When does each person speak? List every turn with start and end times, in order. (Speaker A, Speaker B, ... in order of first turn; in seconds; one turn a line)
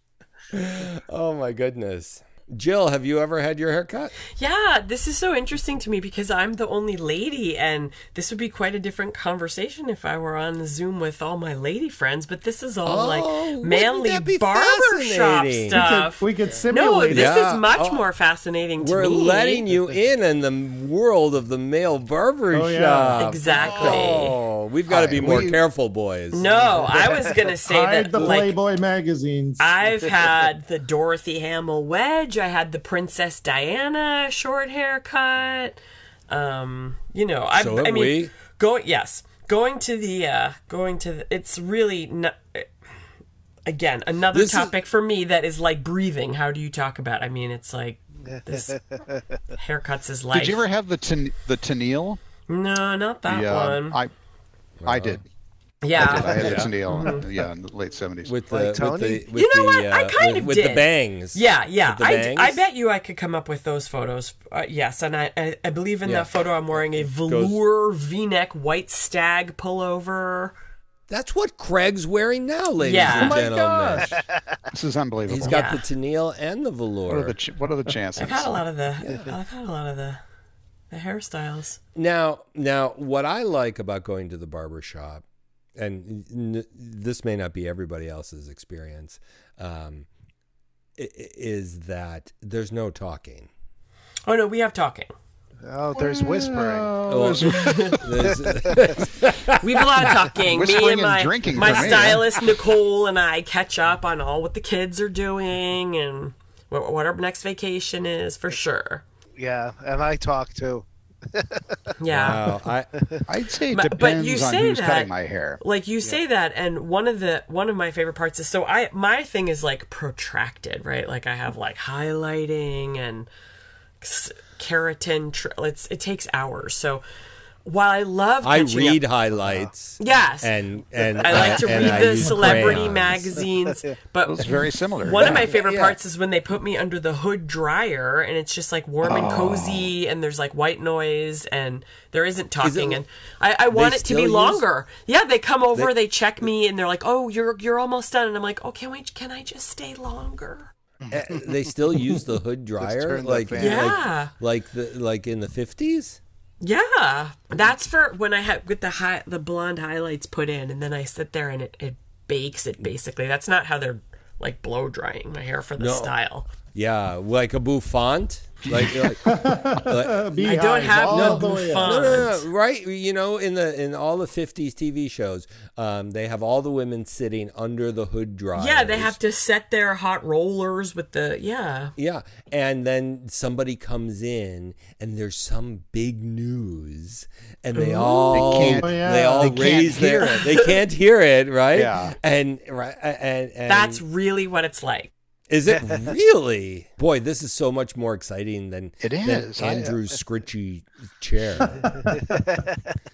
Speaker A: 0.5-4.1
Speaker B: 4.3-19.6
Speaker A: 12.8-15.8
Speaker C: 15.7-17.4
Speaker A: 17.1-18.1
Speaker A: 18.8-26.6
Speaker C: 22.5-23.2
Speaker B: 23.1-24.4
Speaker D: 23.6-24.2
Speaker D: 24.9-25.6
Speaker B: 26.3-28.6
Speaker E: 26.8-27.3
Speaker C: 27.6-29.7
Speaker B: 29.6-42.7
Speaker A: 37.5-38.3
Speaker B: 43.6-48.8
Speaker A: 44.3-44.7
Speaker E: 48.2-49.5
Speaker B: 49.5-50.6
Speaker D: 50.3-52.2
Speaker B: 52.5-54.0
Speaker D: 53.3-54.1
Speaker A: 54.8-55.2
Speaker D: 54.9-55.2
Speaker B: 55.8-57.3
Speaker D: 55.9-58.3
Speaker A: 56.2-56.8
Speaker A: 58.2-62.6
Speaker E: 58.5-59.3
Speaker B: 59.3-70.5
Speaker A: 67.0-67.6
Speaker A: 71.1-74.1
Speaker B: 72.8-73.4
Speaker C: 73.1-74.2
Speaker E: 74.1-74.6
Speaker D: 74.7-75.6
Speaker A: 75.3-77.3
Speaker B: 75.4-75.8
Speaker D: 77.1-78.6
Speaker B: 78.2-80.2
Speaker A: 79.0-79.3
Speaker B: 80.9-81.8
Speaker A: 81.9-85.2
Speaker A: 85.8-90.1
Speaker A: 91.0-93.5
Speaker B: 94.2-95.1
Speaker E: 95.6-97.0
Speaker D: 96.0-98.4
Speaker A: 97.1-100.2
Speaker B: 97.5-98.0
Speaker E: 98.2-99.0
Speaker B: 99.6-109.0
Speaker D: 100.4-102.2
Speaker E: 109.4-111.8
Speaker B: 112.0-112.5
Speaker A: 112.1-112.9
Speaker E: 113.0-113.2
Speaker D: 113.3-115.6
Speaker B: 113.7-123.3
Speaker B: 124.0-127.0
Speaker B: 127.6-129.0
Speaker A: 128.4-133.4
Speaker B: 130.0-130.5
Speaker B: 131.2-150.7
Speaker E: 131.4-131.8
Speaker C: 132.2-132.6
Speaker D: 134.2-135.5
Speaker A: 135.2-136.0
Speaker D: 139.0-139.9
Speaker A: 142.6-143.0
Speaker A: 143.7-144.6
Speaker E: 151.1-151.5
Speaker A: 151.1-156.2
Speaker E: 152.8-154.0
Speaker B: 153.6-154.3
Speaker B: 156.6-166.5
Speaker A: 165.8-166.1
Speaker A: 166.7-179.2
Speaker D: 168.7-169.1
Speaker C: 169.2-172.2
Speaker B: 170.4-172.4
Speaker B: 178.6-181.9
Speaker A: 181.9-194.0
Speaker B: 187.7-188.8
Speaker D: 188.3-190.4
Speaker C: 188.8-189.8
Speaker B: 190.2-190.7
Speaker D: 191.7-192.1
Speaker B: 193.7-195.1
Speaker A: 195.5-202.1
Speaker D: 199.0-199.9
Speaker C: 201.7-202.5
Speaker E: 202.1-202.8